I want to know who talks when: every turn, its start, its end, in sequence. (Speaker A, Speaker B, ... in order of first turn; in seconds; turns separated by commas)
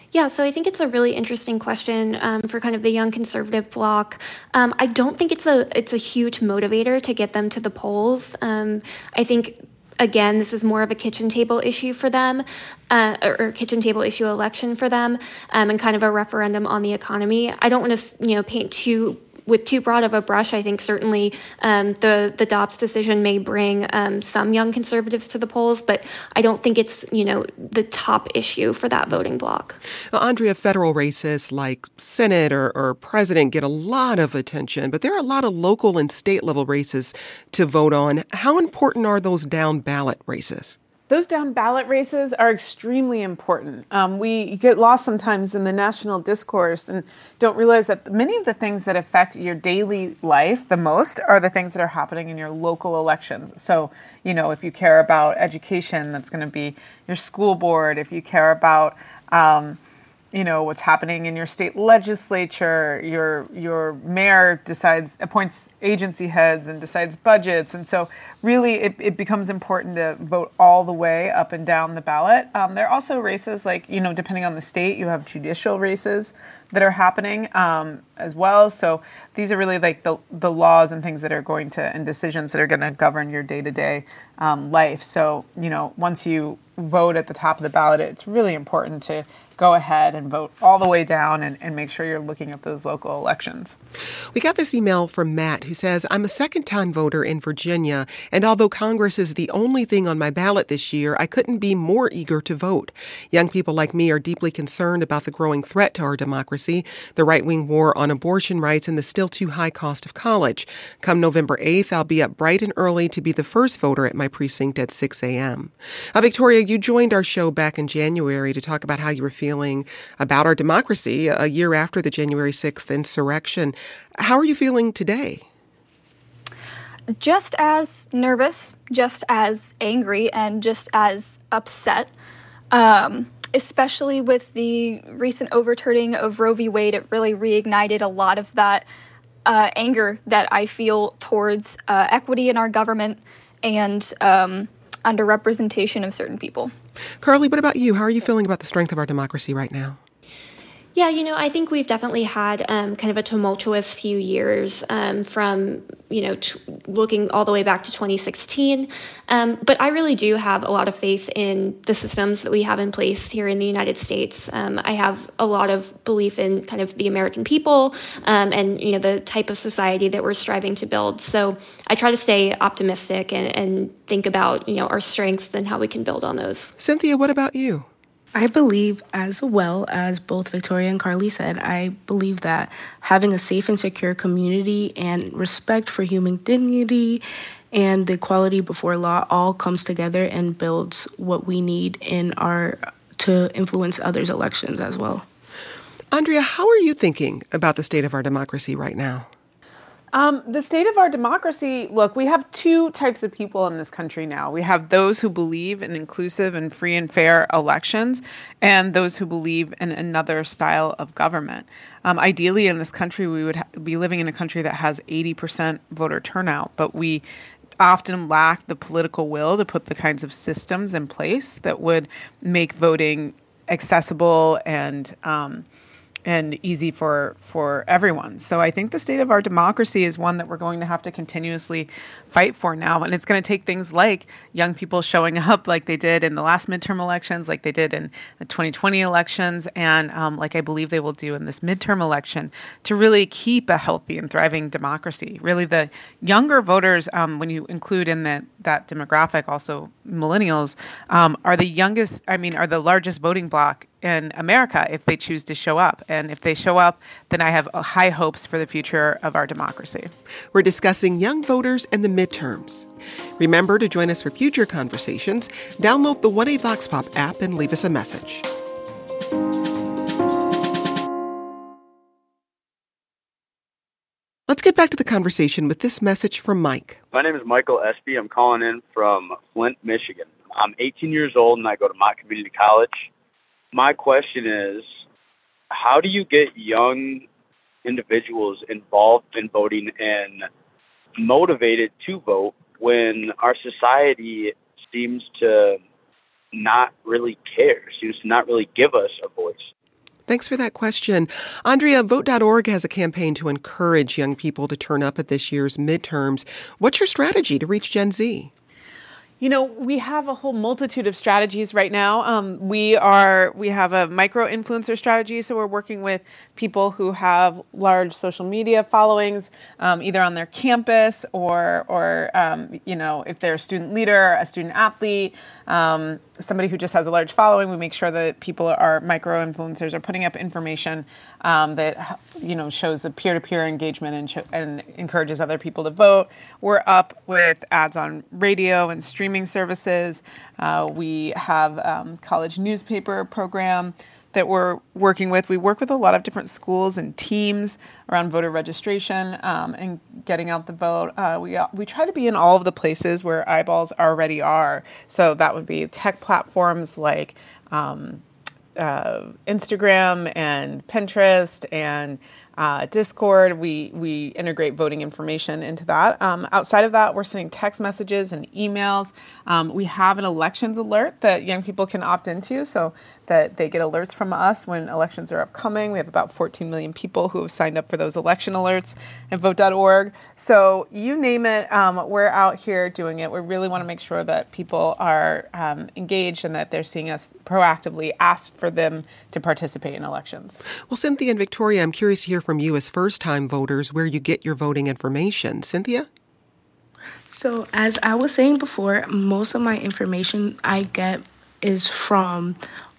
Speaker A: 0.1-29.8, Speaker B: 30.1-40.8, Speaker C: 41.1-59.8, Speaker C: 60.3-93.8, Speaker B: 94.3-125.5, Speaker D: 127.2-132.1, Speaker D: 132.7-138.8, Speaker D: 139.5-146.7, Speaker B: 147.2-150.0, Speaker A: 150.9-176.7, Speaker B: 176.8-177.9, Speaker E: 178.3-195.2, Speaker B: 196.1-199.3, Speaker C: 200.1-217.2, Speaker C: 217.8-225.6, Speaker C: 226.2-260.1, Speaker B: 260.5-262.9, Speaker B: 263.4-268.5, Speaker B: 274.5-277.0, Speaker F: 277.1-283.1, Speaker F: 283.7-284.9, Speaker F: 285.7-287.2, Speaker F: 287.8-290.5, Speaker F: 291.2-295.8, Speaker F: 296.5-299.7, Speaker B: 300.3-308.5, Speaker C: 309.4-358.2, Speaker C: 358.8-390.6, Speaker B: 390.9-396.1, Speaker E: 397.3-402.6